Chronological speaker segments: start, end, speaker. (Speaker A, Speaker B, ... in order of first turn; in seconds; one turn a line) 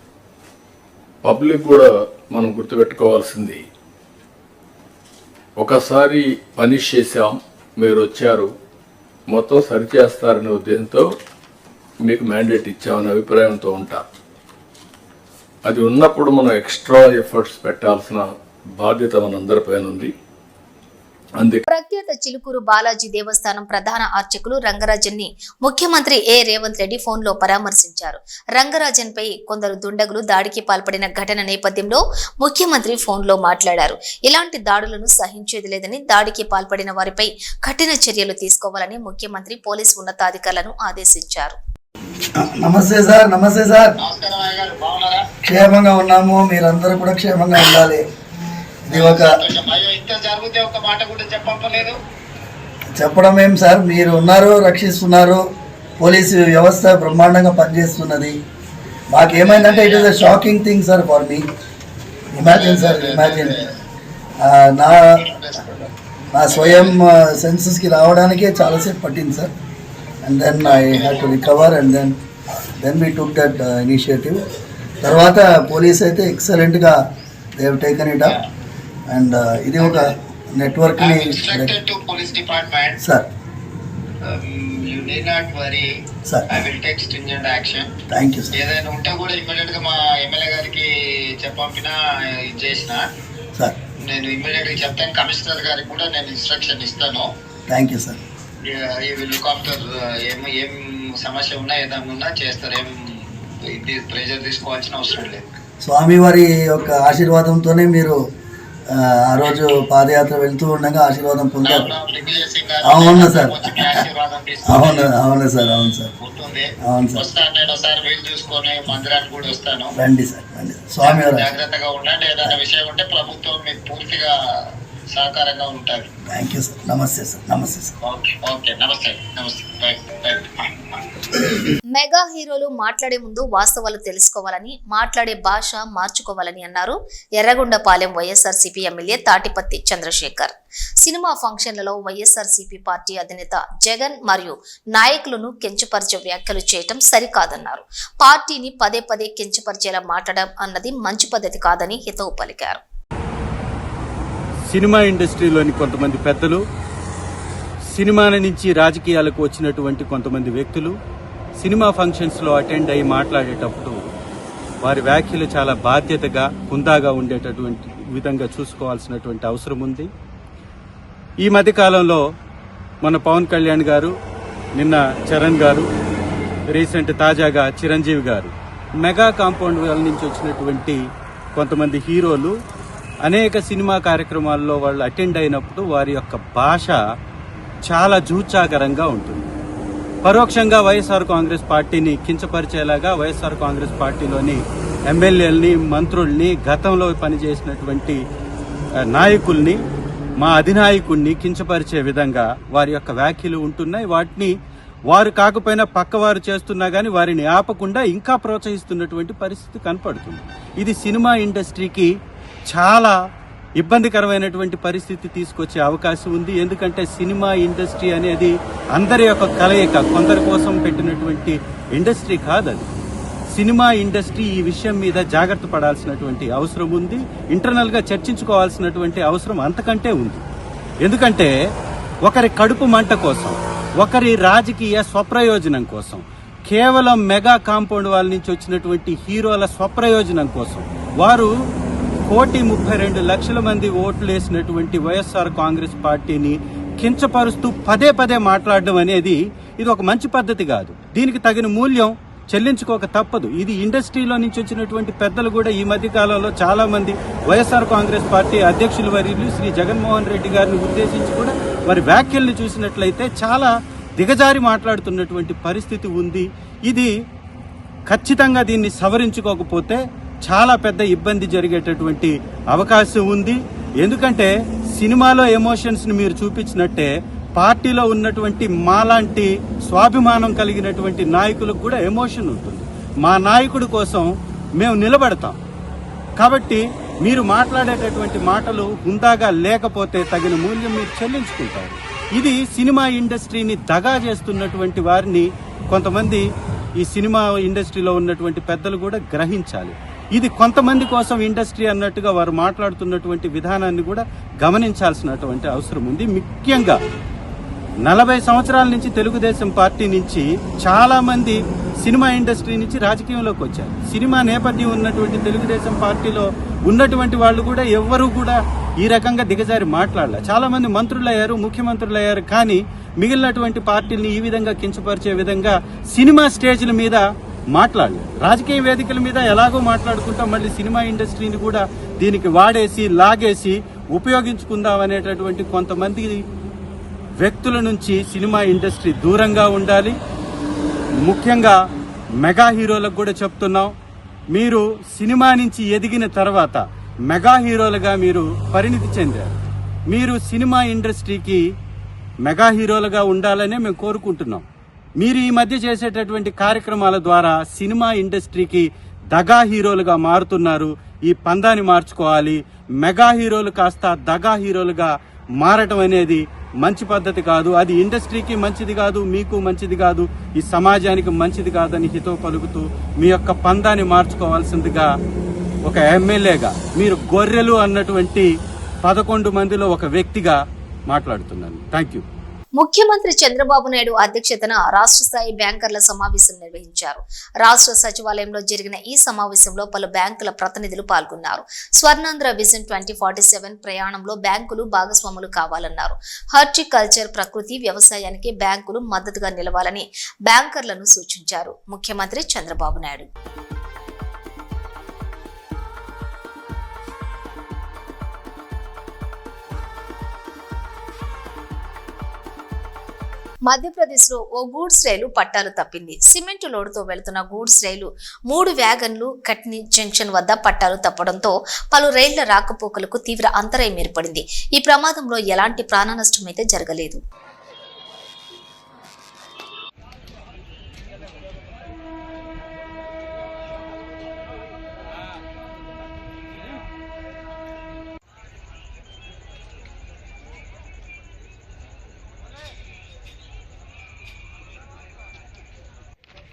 Speaker A: 1.2-3.6
Speaker A: 5.6-8.5
Speaker A: 9.3-11.1
Speaker A: 12.0-14.0
Speaker A: 15.7-18.2
Speaker A: 18.8-20.1
Speaker A: 21.4-21.6
Speaker B: 21.7-41.6
Speaker C: 42.4-43.9
Speaker D: 44.0-45.3
Speaker C: 45.4-48.0
Speaker C: 48.9-49.4
Speaker D: 48.9-52.0
Speaker C: 52.9-55.4
Speaker C: 56.0-58.4
Speaker C: 59.1-61.5
Speaker D: 59.3-60.3
Speaker C: 62.3-63.6
Speaker D: 62.4-63.7
Speaker C: 64.4-65.0
Speaker D: 65.1-65.8
Speaker C: 66.3-69.5
Speaker D: 66.5-67.0
Speaker C: 70.2-72.2
Speaker D: 70.6-71.4
Speaker C: 72.8-74.5
Speaker C: 75.0-77.0
Speaker C: 77.5-78.4
Speaker C: 79.1-81.7
Speaker D: 81.0-83.0
Speaker C: 83.0-83.3
Speaker D: 84.2-85.9
Speaker C: 86.2-86.5
Speaker D: 86.5-87.9
Speaker C: 88.1-88.6
Speaker D: 88.5-93.0
Speaker D: 94.0-97.3
Speaker C: 97.7-98.2
Speaker D: 98.6-105.4
Speaker C: 105.8-108.2
Speaker C: 108.9-111.9
Speaker D: 111.6-115.1
Speaker C: 112.8-114.0
Speaker C: 114.7-116.1
Speaker D: 116.2-119.9
Speaker C: 116.8-117.2
Speaker C: 120.0-121.5
Speaker D: 121.0-124.3
Speaker D: 125.1-126.1
Speaker C: 126.2-127.9
Speaker D: 128.0-131.1
Speaker B: 131.9-152.8
Speaker E: 154.7-156.6
Speaker E: 157.9-160.9
Speaker E: 161.6-164.0
Speaker E: 164.8-170.1
Speaker E: 171.4-172.2
Speaker E: 173.0-174.1
Speaker E: 174.8-175.8
Speaker E: 176.7-181.0
Speaker E: 181.5-182.5
Speaker E: 183.2-187.0
Speaker E: 187.9-189.5
Speaker E: 190.2-198.2
Speaker E: 199.1-199.8
Speaker E: 200.4-204.5
Speaker E: 205.1-212.1
Speaker E: 212.7-213.1
Speaker E: 213.8-222.9
Speaker E: 223.5-230.4
Speaker E: 231.0-231.5
Speaker E: 232.2-241.5
Speaker E: 242.3-267.1
Speaker E: 268.1-284.2
Speaker E: 284.8-285.6
Speaker E: 286.4-296.4
Speaker E: 297.0-307.0
Speaker E: 308.0-327.2
Speaker E: 327.7-336.4
Speaker E: 337.4-340.2
Speaker E: 341.2-341.8
Speaker E: 342.4-343.9
Speaker E: 344.5-349.6
Speaker E: 350.1-351.6
Speaker E: 352.4-354.6
Speaker E: 355.2-375.1
Speaker E: 375.9-378.5
Speaker E: 379.0-380.6
Speaker E: 381.1-382.2
Speaker B: 382.8-403.3
Speaker B: 413.6-427.2